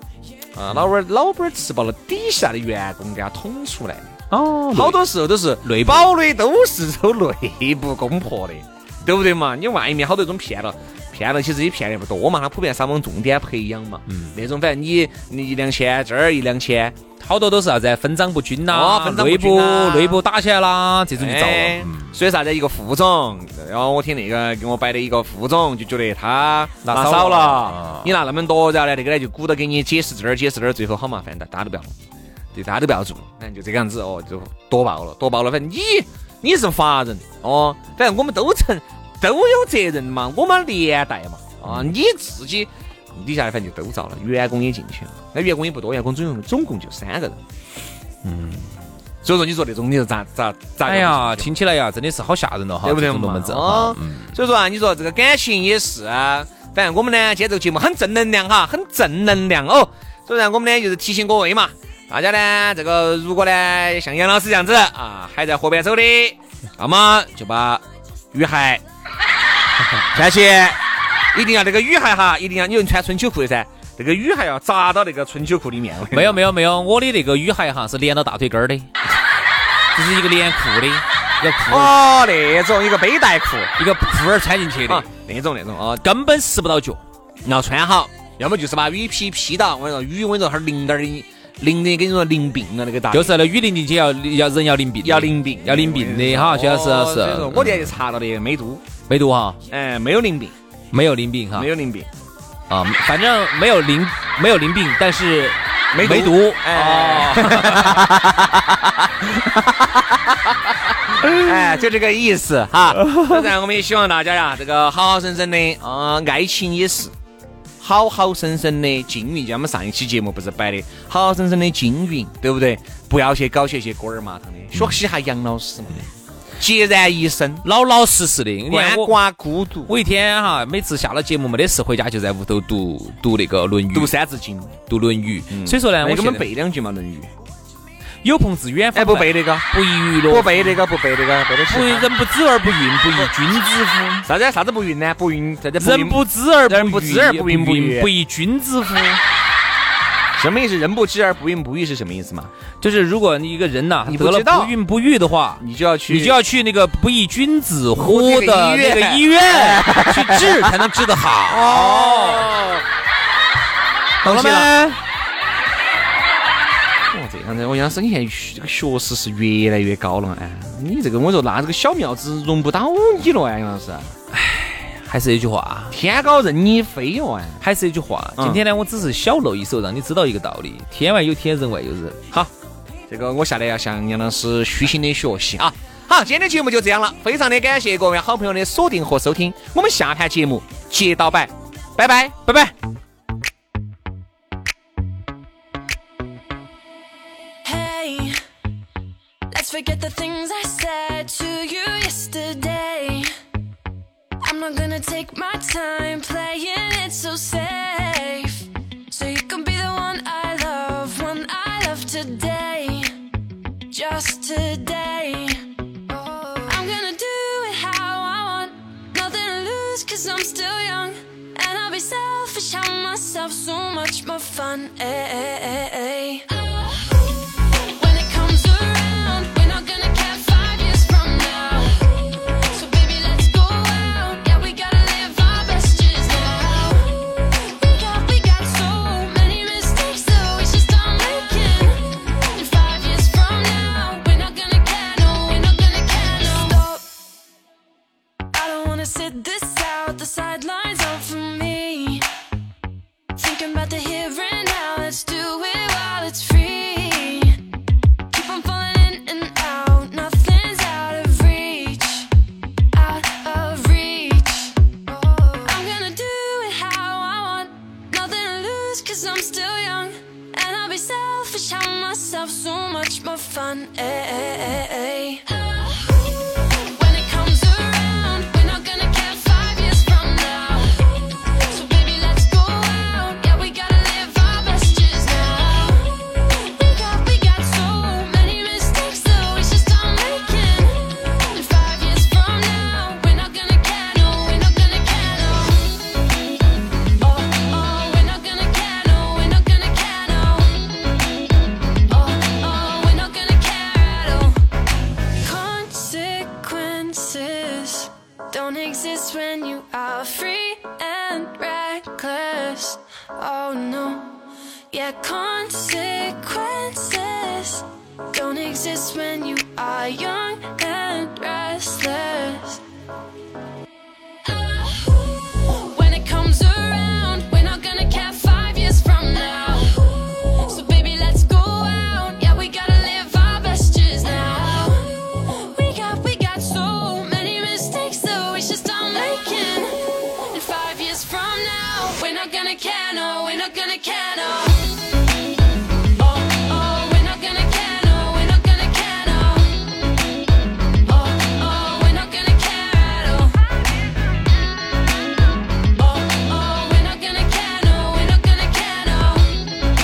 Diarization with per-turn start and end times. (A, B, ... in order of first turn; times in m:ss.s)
0:00.6-0:04.1 A
0:04.3-0:05.0 B
0:04.7-0:17.0 A
0:05.6-0:06.1 B
0:14.1-0:14.4 B
0:17.2-0:22.2 B
0:18.7-0:20.2 A
0:21.2-0:31.9 A
0:26.8-0:28.1 B
0:32.5-0:47.4 A
0:41.6-0:41.9 B
0:48.2-0:48.7 B
0:49.2-0:51.5 A
0:50.8-0:54.3 B
0:52.8-1:08.8 A
1:10.1-1:10.8 A
1:11.3-1:16.4 A
1:16.1-1:18.9 B
1:19.9-1:22.0 B
1:21.7-1:23.7 A
1:23.8-1:25.1 B
1:24.9-1:26.0 A
1:26.0-1:27.0 B
1:27.4-1:33.3 A
1:33.1-1:37.9 B
1:35.0-1:38.8 A
1:39.1-1:39.6 B
1:39.7-1:40.5 A
1:40.9-1:41.7 B
1:41.5-1:42.1 A
1:42.7-1:48.1 B
1:45.9-1:48.5 A
1:49.2-1:50.0 A
1:51.1-1:57.1 A
1:53.1-1:53.4 B
1:57.8-2:06.0 A
2:06.6-2:07.6 A
2:07.6-2:09.2 B
2:08.7-2:09.9 A
2:09.9-2:14.1 B
2:13.9-2:14.8 A
2:14.8-2:16.5 B
2:15.5-2:17.3 A
2:18.2-2:20.8 B
2:18.9-2:19.6 A
2:20.3-2:22.1 A
2:21.7-2:24.3 B
2:24.2-2:28.1 A
2:25.8-2:29.2 B
2:30.4-2:32.5 A
2:32.8-2:42.5 B
2:34.0-2:34.8 A
2:35.6-2:36.4 A
2:38.0-2:40.4 A
2:41.5-2:42.8 A
2:44.2-2:44.7 A
2:44.2-2:45.0 B
2:47.1-2:54.1 A
2:54.3-2:56.0 B
2:55.9-2:57.6 A
2:57.6-3:02.2 B
3:03.1-3:12.5 A
3:12.4-3:12.7 B
3:17.6-3:18.4 C
3:19.5-3:23.3 C
3:24.4-3:33.2 C
3:33.9-3:35.7 C
3:36.3-3:46.8 C
3:47.8-4:07.2 C
4:08.5-4:12.3 C
4:13.3-4:17.6 C
4:18.3-4:22.4 C
4:22.9-4:36.0 C
4:36.8-4:56.0 C
4:57.2-5:01.0 C
5:02.1-5:04.6 C
5:05.3-5:22.8 C
5:25.8-5:45.1 C
5:46.2-5:50.0 C
5:51.1-5:53.8 C
5:56.0-5:59.7 C